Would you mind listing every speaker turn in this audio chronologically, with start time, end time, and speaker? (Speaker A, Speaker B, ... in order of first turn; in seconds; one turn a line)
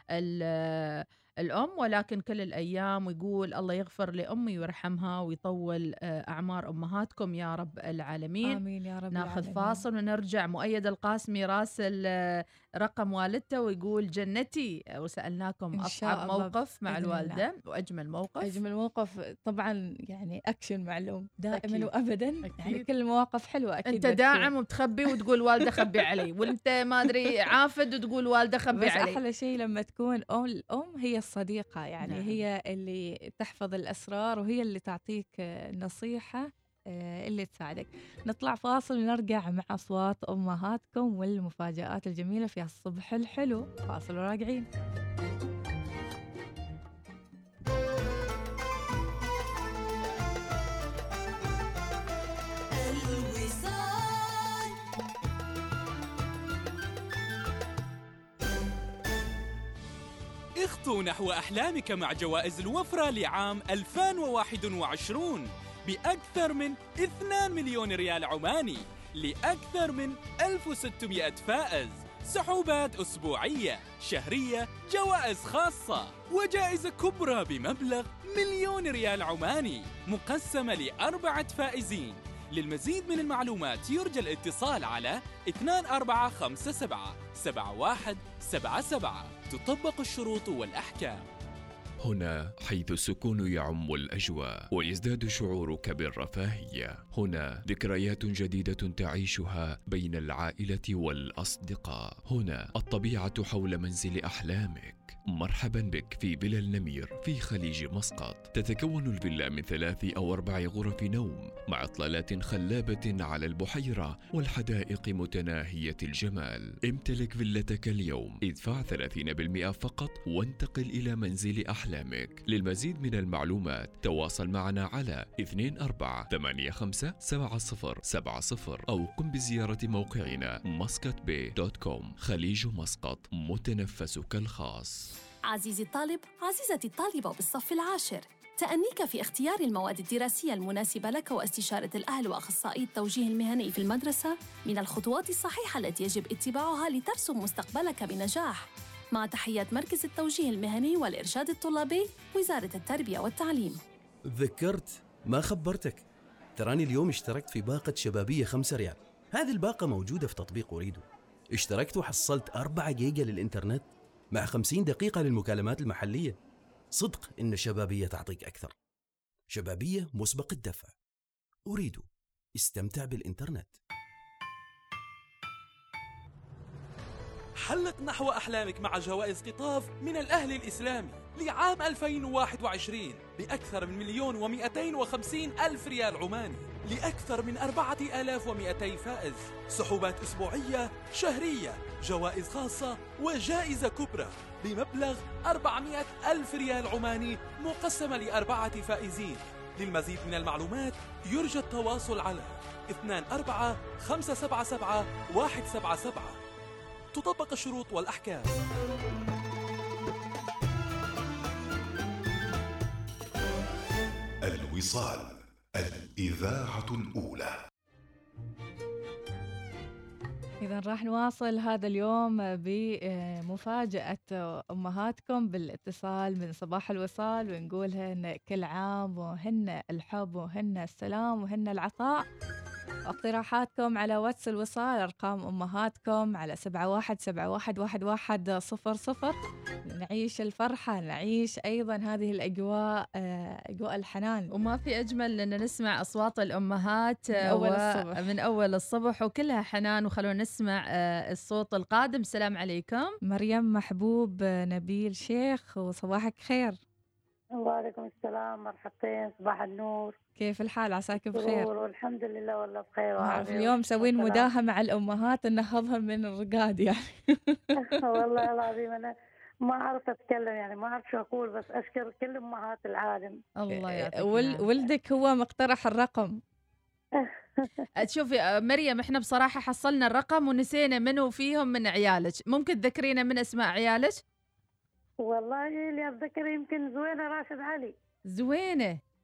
Speaker A: 0.1-8.6
Speaker B: 8.4-9.8
Speaker A: 9.1-18.6
Speaker B: 15.8-17.4
Speaker B: 18.4-24.5
Speaker A: 21.5-21.9
Speaker A: 22.4-22.9
Speaker A: 23.9-29.2
Speaker B: 28.8-44.7
Speaker A: 32.0-32.4
Speaker C: 60.6-91.2
Speaker D: 92.0-135.1
Speaker E: 135.5-153.8
Speaker F: 154.4-156.0
Speaker F: 156.6-161.0
Speaker F: 161.6-166.3
Speaker F: 167.0-168.7
Speaker F: 169.5-170.9
Speaker F: 171.7-172.1
Speaker F: 172.6-173.7
Speaker C: 177.6-206.4
Speaker C: 207.1-208.5
Speaker G: 214.4-217.6
Speaker B: 220.6-232.3
Speaker B: 233.1-239.4
Speaker B: 239.9-244.5
Speaker A: 244.5-253.1
Speaker B: 247.4-248.3
Speaker B: 253.3-256.8
Speaker H: 257.6-260.1
Speaker B: 260.4-261.7
Speaker H: 261.3-264.5
Speaker B: 263.2-267.7
Speaker H: 267.9-269.1
Speaker H: 269.7-273.4
Speaker A: 273.6-274.6
Speaker B: 273.8-276.4
Speaker H: 277.2-277.9
Speaker A: 278.0-284.2
Speaker H: 285.2-287.9
Speaker A: 288.3-289.0